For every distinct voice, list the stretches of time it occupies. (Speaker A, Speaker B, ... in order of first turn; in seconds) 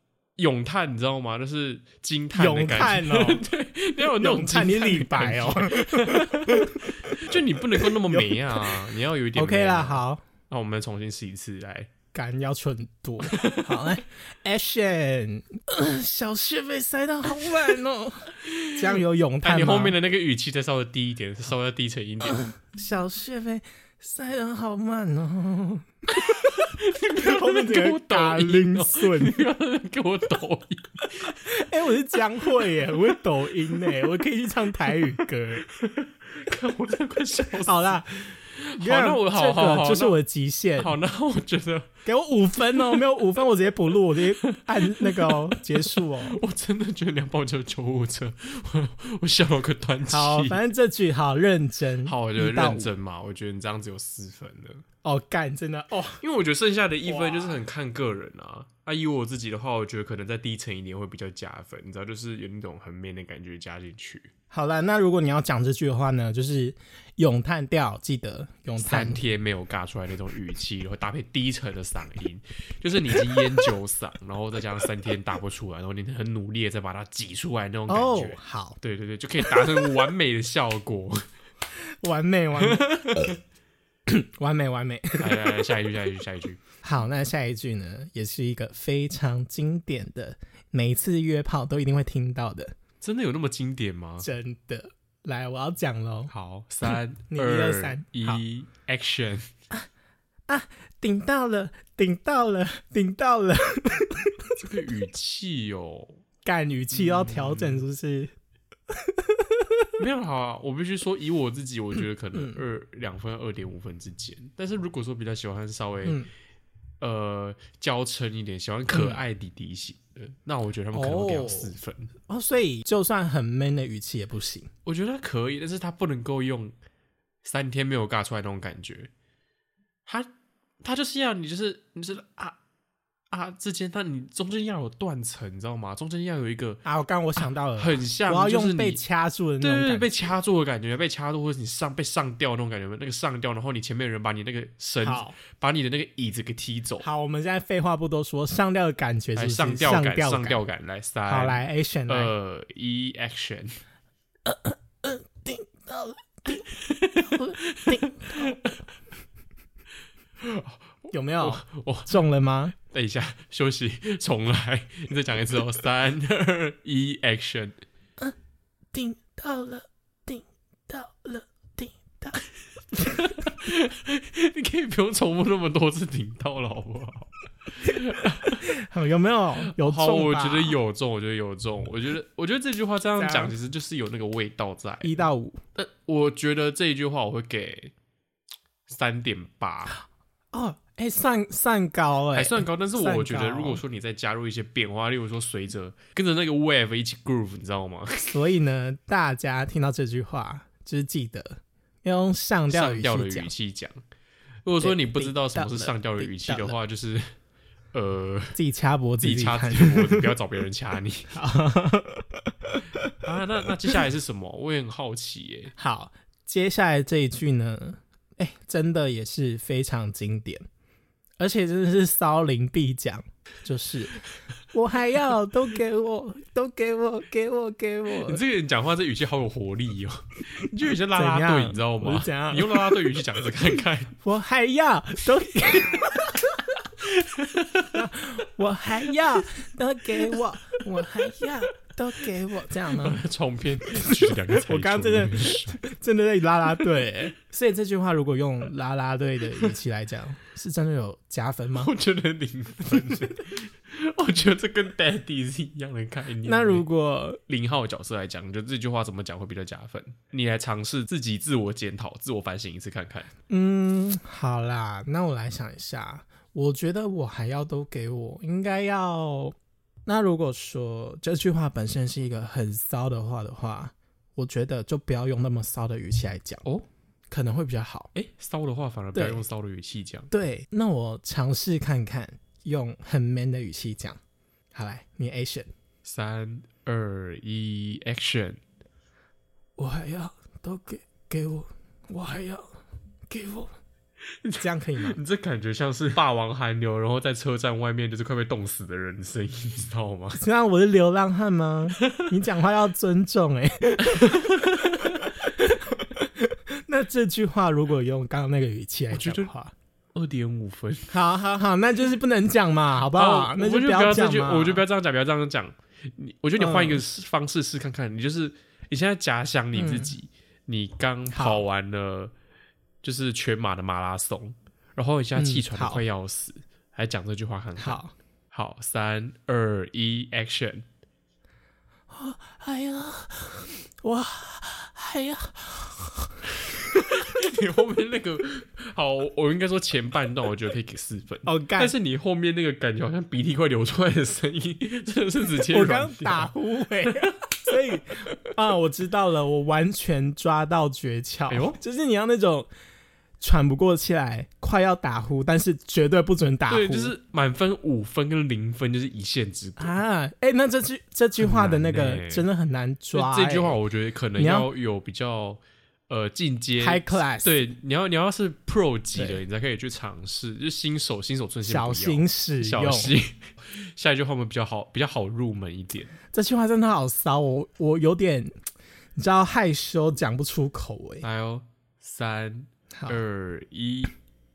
Speaker A: 0.4-11.9, 13.3-13.9, 18.4-22.5, 26.3-31.3, 32.6-33.1, 35.7-40.2, 40.8-41.9, 42.8-43.2, 44.1-50.6, 52.0-54.8, 56.2-64.3, 68.8-81.2, 82.6-83.3, 85.2-86.6, 93.0-94.3, 96.3-99.5, 104.6-106.2, 106.9-107.8, 110.0-116.2, 117.0-122.1, 124.8-126.8, 127.4-129.1, 130.1-130.3, 130.8-132.6, 133.3-136.8, 137.4-139.0, 139.6-147.1, 149.3-153.8, 156.7-158.7, 160.4-160.8, 161.4-162.2, 162.9-167.8, 173.2-178.7, 179.7-185.2, 185.8-187.9, 188.9-189.9, 192.3-198.4, 202.7-204.0, 204.6-207.3, 207.9-208.6, 209.2-211.3, 213.2-215.7, 228.1-234.1, 237.0-237.9, 242.9-245.8, 251.7-256.9, 257.5-263.3, 278.1-280.3, 286.0-288.6, 294.4-300.4, 304.3-305.1, 309.1-309.5, 310.1-311.1, 313.1-322.3, 323.0-328.0, 328.5-330.9, 337.2-346.5, 351.5-351.8, 356.7-359.9, 361.4-362.5, 363.1-376.1, 381.2-384.1
Speaker B: 2.3-3.4, 4.0-8.8, 9.3-10.2, 12.1-19.9, 22.2-26.5, 27.2-29.3, 31.4-35.6, 37.6-40.9, 42.0-46.4, 50.1-52.9, 55.0-56.2, 57.0-57.6, 64.5-69.2, 77.9-78.8, 79.5-79.9, 82.0-83.3, 84.1-85.6, 86.8-92.8, 94.2-96.3, 96.8-98.4, 100.5-104.5, 106.4-108.3, 109.2-109.7, 112.3-112.6, 116.0-116.3, 118.9-119.2, 120.9-121.8, 122.3-124.7, 136.8-140.3, 145.0-145.4, 147.0-150.6, 151.2-152.3, 154.4-156.6, 157.2-158.6, 161.1-162.7, 168.9-172.4, 173.0-173.2, 178.6-180.8, 183.2-183.5, 185.0-185.6, 190.5-193.8, 198.3-203.5, 204.8-206.8, 208.5-210.3, 211.3-212.8, 215.8-220.6, 221.4-228.4, 231.1-232.9, 234.2-236.4, 237.9-243.2, 243.8-251.9, 256.4-257.4, 263.5-269.5, 270.1-276.6, 277.3-278.1, 279.1-279.4, 280.3-284.2, 284.7-285.7, 289.8-292.7, 293.3-293.7, 294.6-295.2, 300.4-304.4, 305.3-306.3, 306.8-309.7, 311.1-314.8, 316.6-317.0, 319.7-320.2, 321.3-321.6, 325.4-326.0, 327.8-328.1, 332.1-337.0, 341.4-341.9, 345.6-352.7, 353.4-357.1, 359.8-363.8, 364.4-364.7, 366.8-367.6, 369.1-369.4, 371.6-373.1, 376.3-378.5, 379.1-381.2, 382.9-383.2